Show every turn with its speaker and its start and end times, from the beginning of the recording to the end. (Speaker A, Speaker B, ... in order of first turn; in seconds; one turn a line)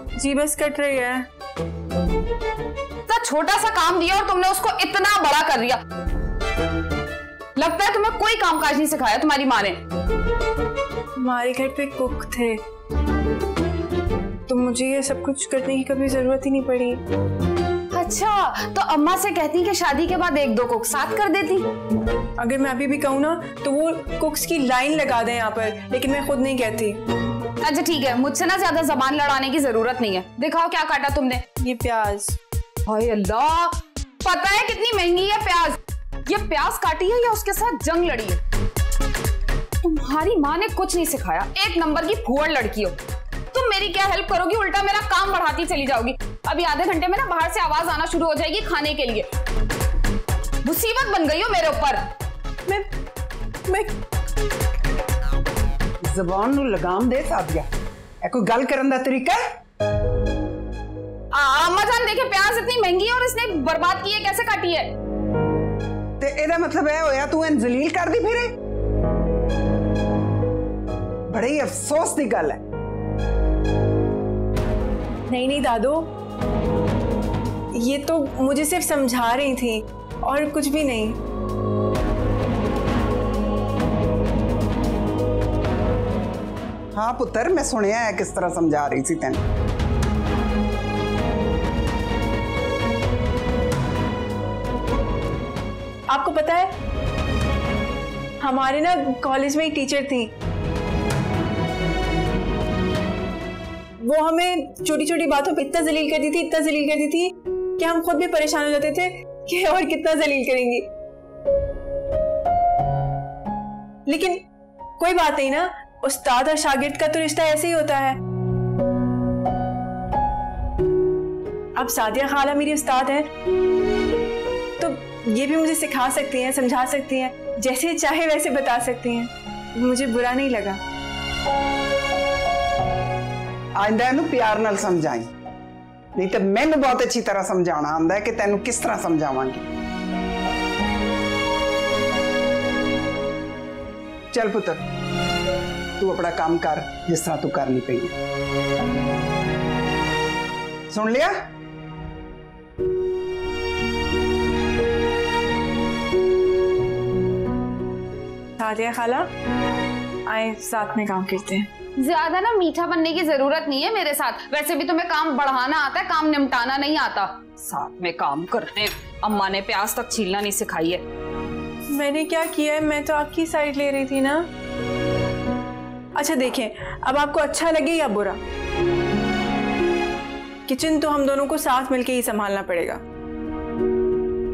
Speaker A: 0.2-1.3
Speaker B: 3.1-5.8
Speaker B: 7.6-9.8
Speaker A: 11.2-12.6
Speaker A: 14.5-17.0
Speaker B: 17.9-21.7
Speaker A: 22.4-27.0
Speaker B: 27.6-31.4
Speaker A: 31.6-32.4
Speaker B: 32.9-38.4
Speaker B: 39.8-43.0
Speaker B: 43.5-49.3
Speaker B: 50.6-52.0
Speaker A: 53.7-54.0
Speaker C: 56.0-57.7
Speaker C: 58.2-59.4
Speaker B: 61.3-64.9
Speaker C: 66.2-68.5
Speaker C: 71.3-72.6
Speaker A: 75.3-76.1
Speaker A: 77.7-81.2
Speaker C: 87.0-89.4
Speaker A: 96.1-96.8
Speaker A: 98.4-100.3
Speaker A: 104.0-110.9
Speaker A: 114.1-114.4
Speaker A: 115.0-118.2
Speaker A: 121.8-123.3
Speaker A: 124.8-130.8
Speaker C: 133.8-135.3
Speaker C: 136.2-139.7
Speaker C: 144.3-144.8
Speaker C: 146.0-148.1
Speaker C: 150.9-151.3
Speaker A: 158.6-159.3
Speaker A: 160.3-161.7
Speaker B: 162.0-171.0
Speaker A: 171.9-174.5
Speaker A: 176.2-178.4
Speaker A: 180.7-183.0